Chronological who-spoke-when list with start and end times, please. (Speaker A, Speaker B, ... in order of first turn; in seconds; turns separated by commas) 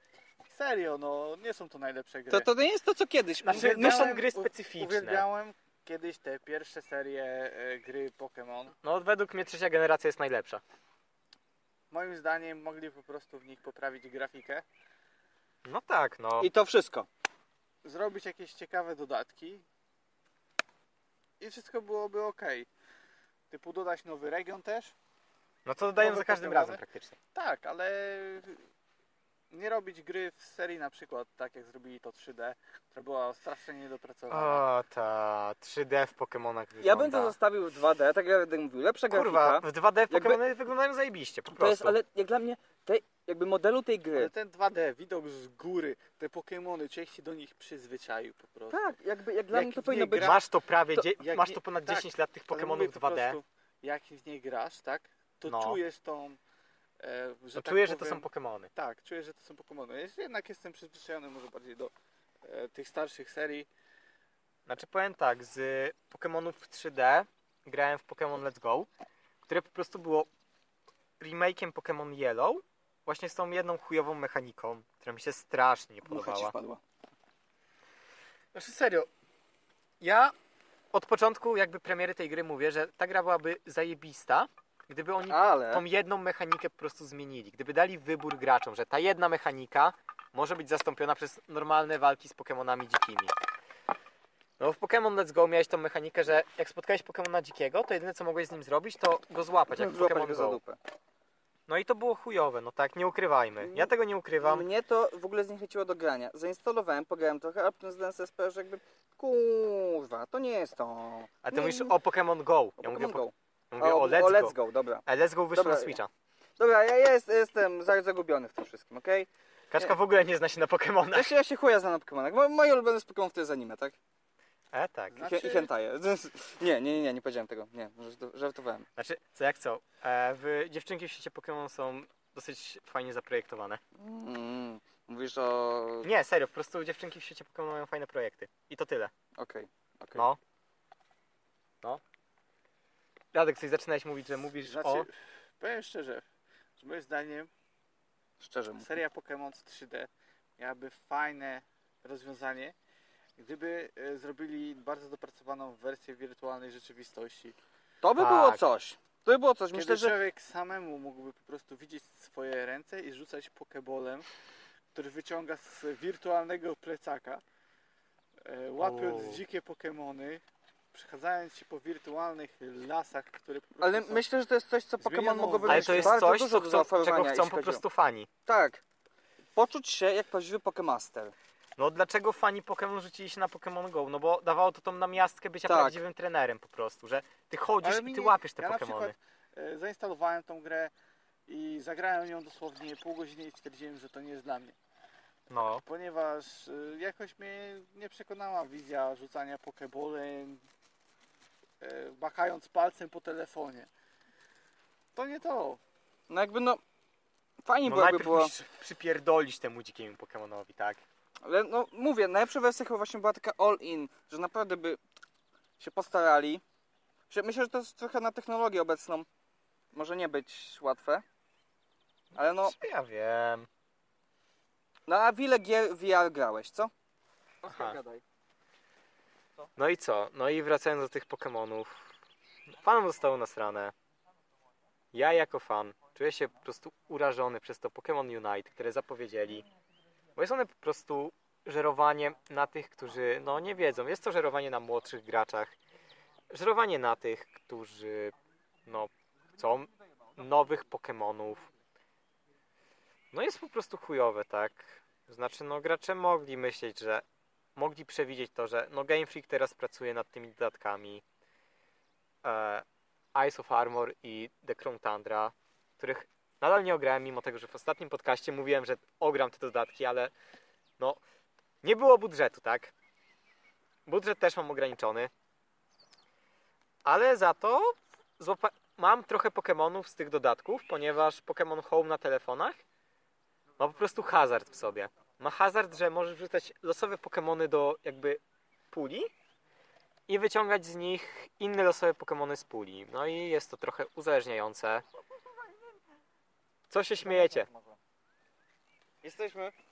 Speaker A: 0.5-2.5, Speaker B: 2.3-4.1, Speaker C: 3.4-5.2, Speaker A: 3.5-8.8, Speaker C: 8.8-10.6, Speaker A: 11.9-14.6, Speaker C: 15.6-16.5, Speaker B: 16.4-17.1, Speaker A: 17.8-19.6, Speaker A: 21.4-22.7, Speaker A: 23.5-24.9, Speaker C: 25.6-27.1, Speaker A: 25.9-26.8, Speaker A: 27.3-28.6, Speaker A: 29.5-34.6, Speaker C: 34.3-37.3, Speaker B: 36.8-40.4, Speaker C: 39.1-41.9, Speaker B: 41.5-44.3, Speaker A: 44.1-48.9, Speaker B: 48.7-50.4, Speaker C: 49.5-53.4, Speaker A: 49.6-50.4, Speaker A: 50.9-56.4, Speaker C: 55.5-55.8, Speaker A: 57.0-61.9, Speaker C: 57.5-58.7, Speaker A: 62.4-63.7, Speaker C: 64.7-68.9, Speaker C: 69.5-70.3, Speaker C: 71.2-76.5, Speaker B: 76.0-76.8, Speaker C: 78.5-79.1, Speaker C: 80.0-80.3, Speaker C: 80.9-93.3, Speaker B: 85.3-85.8, Speaker C: 94.6-100.6, Speaker B: 99.7-100.8, Speaker C: 101.7-104.7, Speaker B: 103.6-103.9, Speaker B: 104.4-111.9, Speaker C: 111.4-116.1, Speaker B: 112.8-116.0, Speaker B: 116.6-119.9, Speaker C: 119.7-121.3, Speaker B: 121.1-124.0, Speaker C: 124.7-125.2, Speaker A: 125.1-125.7, Speaker B: 125.2-128.8, Speaker C: 128.9-133.8, Speaker B: 133.9-136.1, Speaker C: 136.0-139.1, Speaker B: 139.3-140.3, Speaker C: 140.1-140.4, Speaker C: 143.3-145.1, Speaker A: 144.6-146.2, Speaker A: 146.8-147.5, Speaker B: 148.4-148.9, Speaker A: 148.8-152.7, Speaker A: 153.4-157.6, Speaker B: 158.0-160.1, Speaker C: 158.2-158.6, Speaker A: 159.7-164.2, Speaker A: 164.9-167.4, Speaker A: 168.4-170.4, Speaker C: 168.8-169.4, Speaker A: 170.9-174.2, Speaker B: 173.8-177.8, Speaker A: 175.0-176.2, Speaker C: 175.7-178.3, Speaker B: 178.4-178.8, Speaker B: 179.6-181.3, Speaker C: 181.8-189.1, Speaker B: 185.7-186.0, Speaker A: 187.8-190.9, Speaker A: 191.5-194.8, Speaker C: 195.5-195.8, Speaker A: 195.8-200.6, Speaker A: 201.8-203.9, Speaker A: 205.1-205.8, Speaker B: 206.3-206.8, Speaker B: 207.6-208.5, Speaker C: 207.8-211.0, Speaker B: 211.4-215.0, Speaker B: 215.8-216.6, Speaker B: 217.3-219.3, Speaker B: 219.9-221.2, Speaker B: 222.3-222.8, Speaker C: 222.6-223.7, Speaker B: 225.1-226.9, Speaker B: 227.6-228.2, Speaker C: 227.7-228.0, Speaker C: 229.8-232.1, Speaker C: 232.7-233.9, Speaker C: 235.1-239.6, Speaker C: 240.3-245.7, Speaker C: 246.5-248.3, Speaker C: 248.8-251.7, Speaker C: 253.3-257.2, Speaker C: 257.8-261.2, Speaker C: 262.4-270.3, Speaker C: 271.8-272.9, Speaker C: 274.1-275.3, Speaker C: 277.0-282.8, Speaker C: 283.8-289.3, Speaker C: 290.3-295.0, Speaker C: 296.9-297.7, Speaker B: 297.6-297.9, Speaker B: 299.2-299.7